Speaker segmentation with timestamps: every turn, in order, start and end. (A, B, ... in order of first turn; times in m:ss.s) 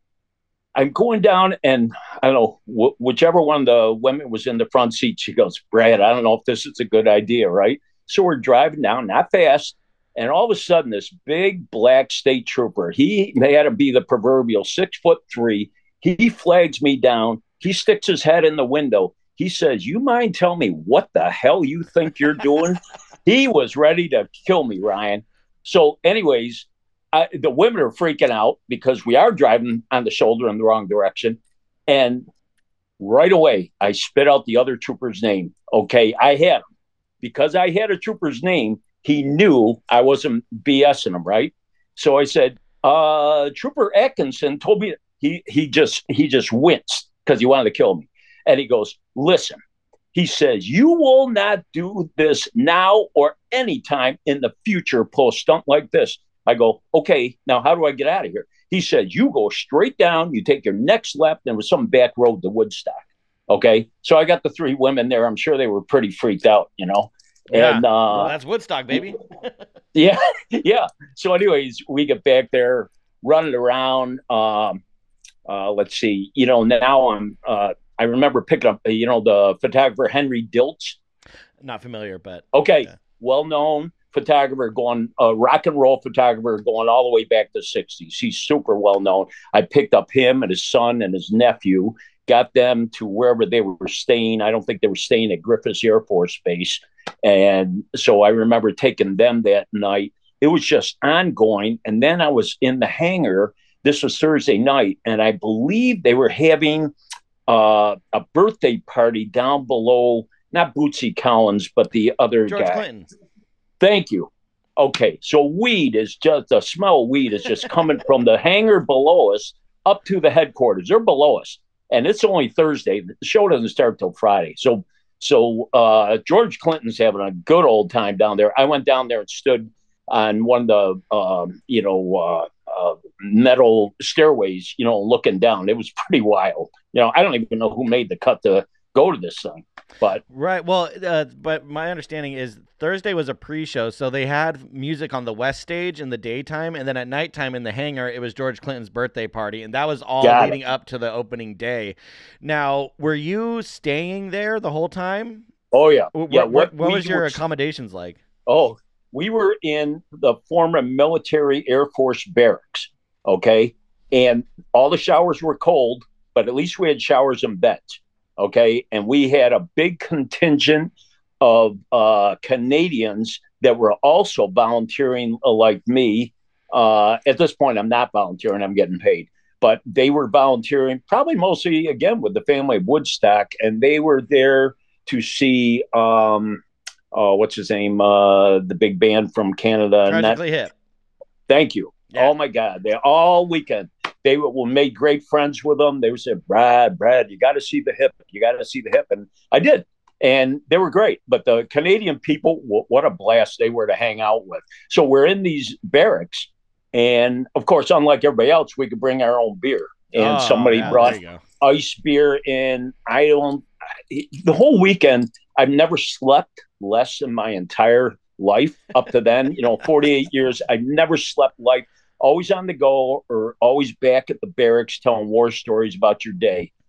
0:00.8-0:32.2 A
0:33.0-0:36.6 A
0:37.2-0:49.6 A
0:50.1-1:08.3 A
1:07.5-1:09.5 B
1:10.0-1:14.8 A
1:15.5-1:21.0 A
1:21.6-1:22.9 B
1:22.5-1:46.9 A
1:47.5-1:52.8 A
1:52.5-1:53.1 B
1:53.8-2:20.2 A
2:20.3-2:35.5 B
2:30.2-2:30.6 A
2:35.7-2:37.4 A
2:36.1-2:38.2 B
2:38.5-3:06.6 A
3:07.1-3:10.4 A
3:10.1-3:10.7 B
3:11.5-3:46.7 A
3:30.1-3:31.4 B